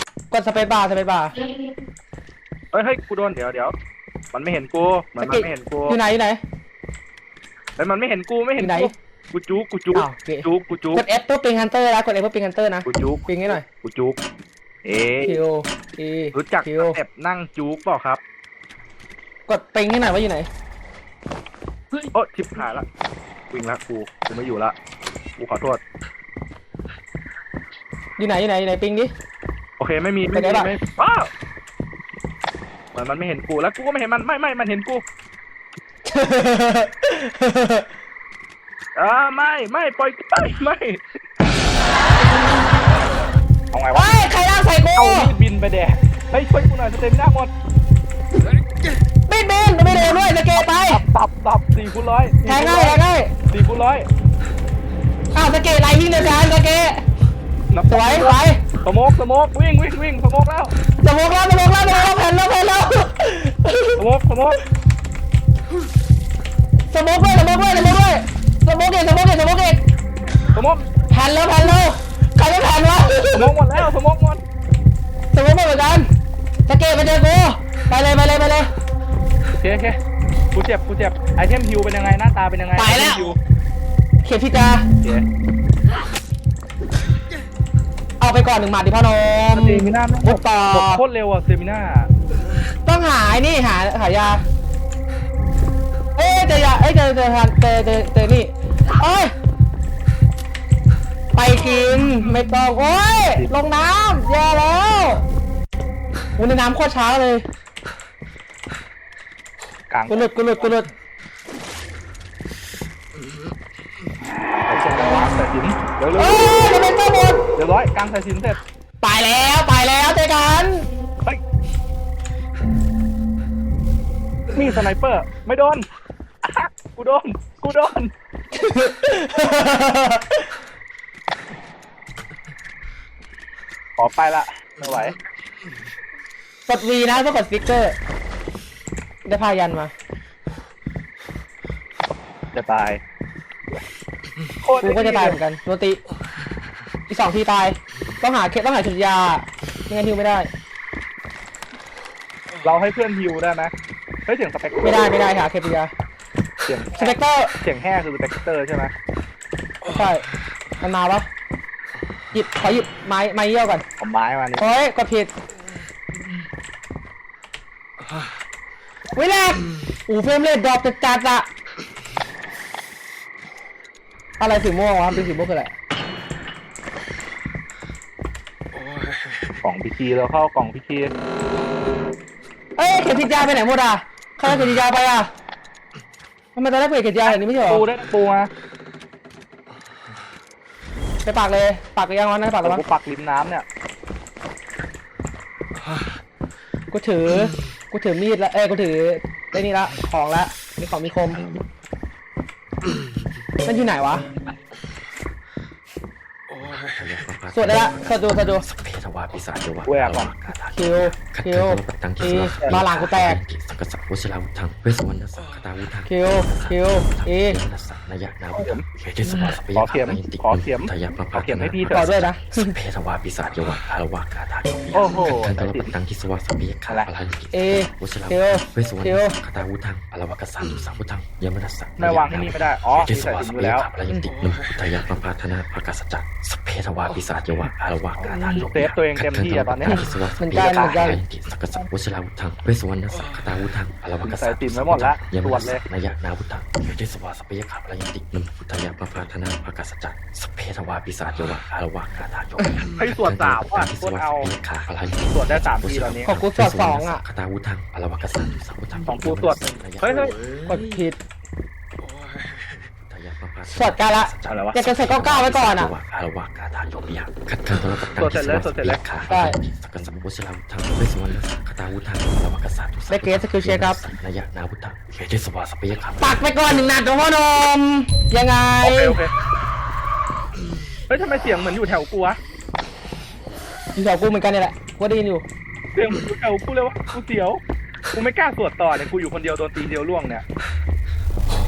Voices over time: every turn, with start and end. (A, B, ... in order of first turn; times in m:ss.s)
0:00.3-0:01.3 A
0:02.7-0:03.7 B
0:04.3-0:06.0 B
0:05.2-0:06.4 A
0:07.8-0:11.0 B
0:08.6-0:08.9 A
0:09.9-0:13.6 A
0:12.8-0:14.2 B
0:14.8-0:15.4 B
0:15.2-0:17.0 A
0:16.3-0:18.2 B
0:19.5-0:20.5 A
0:22.0-0:22.8 B
0:23.5-0:24.7 B
0:25.4-0:25.8 B
0:28.2-0:29.1 A
0:29.8-0:31.3 B
0:30.3-0:30.7 A
0:32.9-0:35.0 B
0:36.1-0:37.8 A
0:39.0-0:41.0 B
0:43.7-0:44.2 B
0:43.9-0:45.3 A
0:45.0-0:47.5 B
0:49.3-0:51.0 A
0:50.9-0:54.1 B
0:52.4-0:53.3 A
0:55.3-0:57.0 A
0:57.7-1:00.7 B
0:57.9-0:58.6 A
1:01.0-1:04.0 A
1:04.0-1:04.6 B
1:06.9-1:09.8 A
1:10.5-1:10.8 B
1:11.1-1:13.5 A
1:13.3-1:14.4 B
1:15.3-1:16.1 A
1:16.6-1:18.7 A
1:19.6-1:20.0 B
1:20.5-1:23.4 B
1:22.8-1:23.3 A
1:24.2-1:24.8 A
1:25.0-1:25.3 B
1:28.2-1:31.0 A
1:29.5-1:32.1 B
1:32.8-1:34.4 A
1:36.2-1:39.3 A
1:41.3-1:45.2 A
1:46.4-1:47.4 A
1:49.9-1:50.4 B
1:50.1-1:50.9 A
1:54.6-1:56.5 B
1:54.7-1:55.3 A
1:56.2-1:57.4 A
1:57.6-1:58.6 B
1:59.0-2:00.9 A
2:04.5-2:05.8 B
2:06.4-2:08.1 B
2:08.5-2:10.4 A
2:14.0-2:15.2 B
2:16.7-2:18.0 A
2:19.2-2:19.9 A
2:22.5-2:23.0 B
2:24.6-2:25.4 B
2:24.8-2:26.0 A
2:27.1-2:30.5 A
2:32.6-2:33.7 B
2:34.3-2:35.1 B
2:34.8-2:35.9 A
2:36.6-2:38.9 B
2:37.0-2:37.5 A
2:39.8-2:40.2 A
2:40.8-2:41.3 A
2:42.3-2:43.8 A
2:44.0-2:44.7 B
2:44.6-2:45.3 A
2:49.1-2:51.5 A
2:54.4-2:55.7 A
2:59.6-3:01.1 B
3:02.8-3:05.3 A
3:06.5-3:07.8 A
3:07.2-3:08.5 B
3:11.2-3:12.8 A
3:12.6-3:13.6 B
3:16.9-3:21.5 A
3:23.6-3:24.2 A
3:26.6-4:20.1 C
3:27.5-3:28.6 A
3:29.8-3:30.3 B
3:30.7-3:33.4 A
3:32.4-3:32.8 B
3:36.0-3:37.6 A
3:38.6-3:38.8 B
3:39.4-3:42.2 B
3:41.9-3:42.7 A
3:44.9-3:45.9 B
3:47.5-3:49.4 A
3:52.0-3:53.9 B
3:58.2-4:00.1 B
4:00.4-4:01.2 A
4:04.2-4:05.8 B
4:13.0-4:14.5 B
4:15.3-4:16.3 B
4:16.2-4:17.2 A
4:19.1-4:20.4 B
4:20.6-4:21.2 A
4:23.0-4:36.5 C
4:23.7-4:25.9 A
4:24.5-4:24.8 B
4:28.1-4:29.0 B
4:29.3-4:29.6 A
4:33.1-4:34.0 A
4:36.2-4:39.2 A
4:38.8-4:39.3 B
4:41.1-4:42.4 B
4:43.9-4:45.4 A
4:45.9-4:47.6 B
4:48.1-4:50.4 B